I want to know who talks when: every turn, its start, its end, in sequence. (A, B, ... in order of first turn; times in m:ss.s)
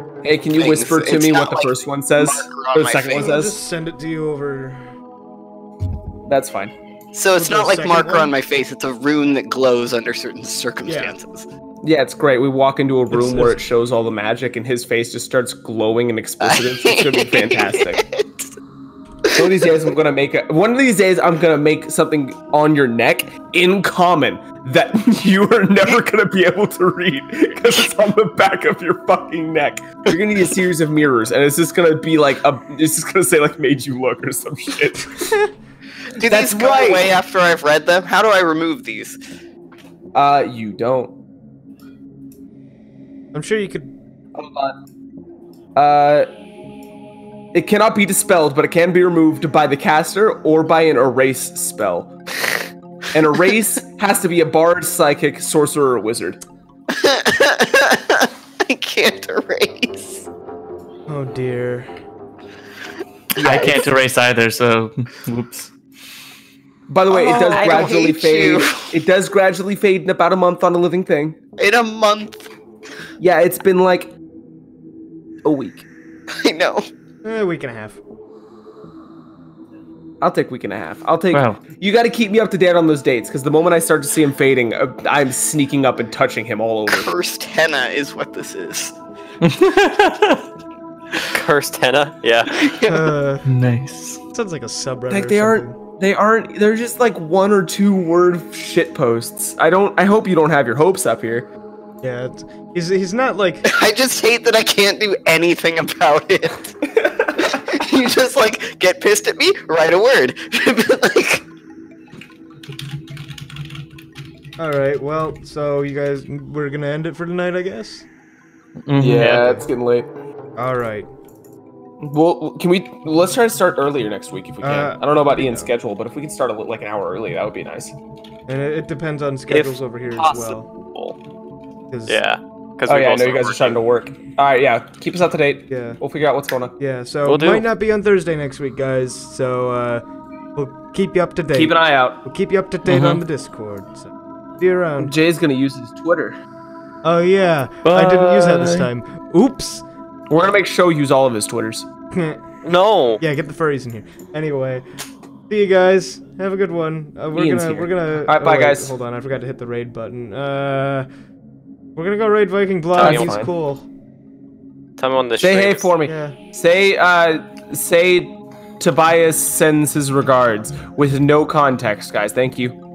0:00.2-0:03.6 A
0:00.6-0:03.3 B
0:03.1-0:04.8 C
0:06.3-0:06.7 A
0:07.1-0:11.5 B
0:07.4-0:08.4 C
0:10.8-0:11.2 C
0:11.8-0:18.0 A
0:13.1-0:13.6 C
0:16.4-0:18.5 B
0:19.4-0:35.4 A
0:36.1-0:39.2 B
0:36.2-0:37.2 A
0:40.1-0:41.1 A
0:43.3-0:43.9 C
0:44.4-0:44.8 A
0:45.8-0:46.3 A
0:47.5-0:52.1 A
0:53.1-0:56.4 A
0:56.9-1:00.3 B
1:01.1-1:01.9 C
1:03.4-1:05.7 D
1:03.4-1:03.7 B
1:03.4-1:04.0 A
1:06.9-1:11.4 A
1:07.1-1:08.9 B
1:11.6-1:12.5 B
1:13.2-1:14.1 A
1:15.4-1:15.9 A
1:16.4-1:16.9 B
1:17.2-1:18.0 C
1:20.2-1:27.1 A
1:21.3-1:21.6 D
1:26.9-1:29.0 B
1:29.4-1:30.4 D
1:31.3-1:32.7 E
1:32.6-1:33.0 B
1:32.9-1:33.5 C
1:33.4-1:34.2 D
1:34.3-1:35.8 C
1:35.1-1:41.5 A
1:42.0-1:43.7 C
1:43.7-1:46.7 B
1:46.9-1:47.6 A
1:47.4-1:51.4 B
1:54.6-1:58.1 C
1:58.9-1:59.6 D
1:59.0-2:00.1 A
2:00.6-2:01.1 C
2:02.0-2:08.0 A
2:04.6-2:05.7 C
2:08.5-2:10.7 C
2:09.5-2:10.5 E
2:11.9-2:12.2 C
2:12.1-2:13.8 E
2:12.9-2:16.8 A
2:15.7-2:16.0 C
2:16.8-2:20.0 C
2:17.3-2:17.7 E
2:20.6-2:25.1 C
2:21.5-2:22.2 A
2:22.9-2:23.2 D
2:25.0-2:26.4 A
2:27.0-2:29.8 C
2:27.9-2:28.9 D
2:30.3-2:31.9 A
2:32.1-2:32.4 C
2:32.6-2:33.2 E
2:33.2-2:34.8 C
2:35.5-2:41.1 C
2:37.3-2:38.9 A
2:42.0-2:43.9 C
2:43.0-2:43.3 E
2:43.0-2:43.5 A
2:45.0-2:45.9 E
2:45.4-2:52.8 A
2:46.1-2:46.4 C